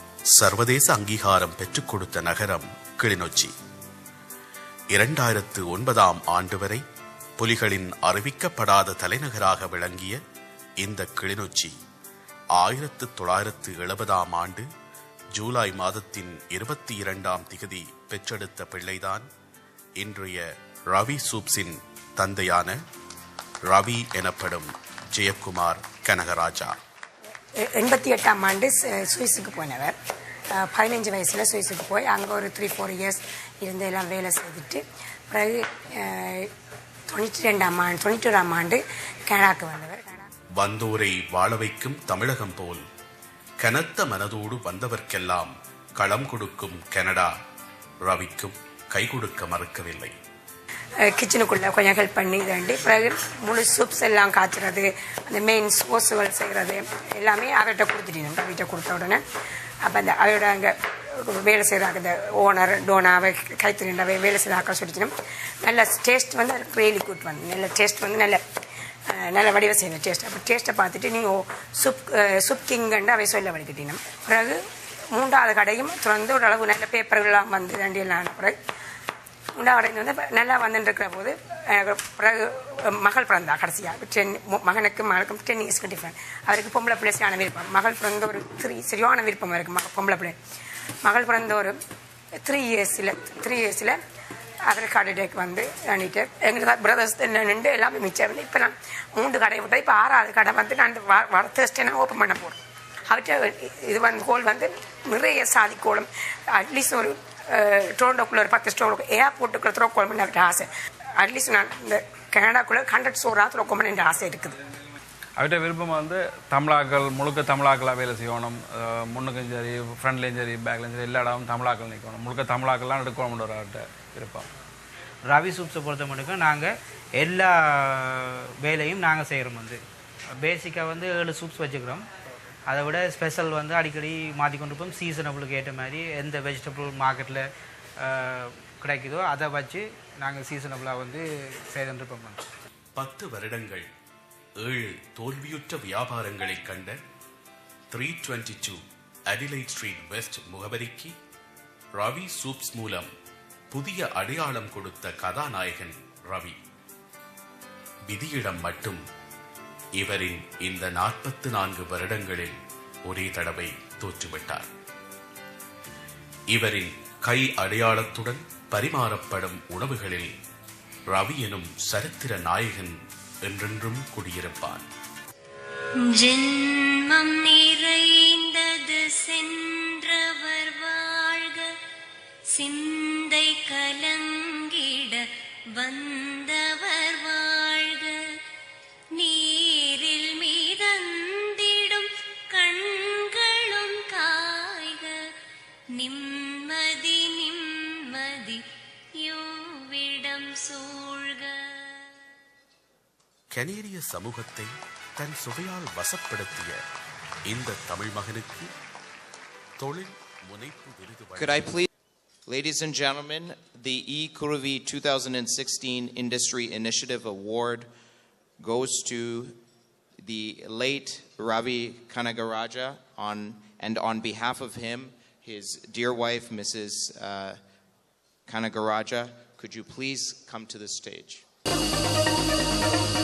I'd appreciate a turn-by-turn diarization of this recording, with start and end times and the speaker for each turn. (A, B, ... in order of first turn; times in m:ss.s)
0:00.3-0:03.5 A
0:04.9-0:06.8 A
0:07.4-0:10.2 A
0:10.8-0:11.7 A
0:12.6-0:14.7 A
0:15.3-0:19.2 A
0:20.0-0:22.8 A
0:23.7-0:26.7 A
0:27.6-0:29.9 B
0:30.6-0:36.5 B
0:37.1-0:40.3 B
0:40.6-0:42.8 A
0:43.6-0:47.3 A
0:48.0-0:50.1 A
0:51.0-0:59.2 B
0:59.8-1:08.4 B
1:09.1-1:14.6 B
1:15.1-1:18.6 B
1:19.6-1:30.4 B
1:31.0-1:31.8 B
1:32.4-1:34.0 B
1:34.7-1:54.6 B
1:55.4-2:04.5 C
2:05.3-2:09.8 D
2:10.4-2:12.0 D
2:12.7-2:17.4 D
2:18.0-2:22.5 D
2:23.0-2:23.9 A
2:24.6-2:27.0 A
2:27.9-2:31.1 A
2:32.0-2:33.1 A
2:33.7-2:36.6 A
2:38.1-2:39.0 A
2:40.0-2:44.7 A
2:46.5-2:50.3 A
2:51.1-2:54.8 A
2:56.1-3:01.7 E
3:02.5-3:05.2 E
3:05.8-3:08.1 E
3:09.1-3:15.1 E
3:15.9-3:18.6 E
3:19.2-3:22.1 E
3:23.5-3:26.8 A
3:27.5-3:28.7 A
3:29.8-3:31.7 A
3:31.4-3:31.9 F
3:32.5-3:37.9 F
3:38.6-3:39.6 F
3:40.2-3:47.6 F
3:48.5-3:51.4 F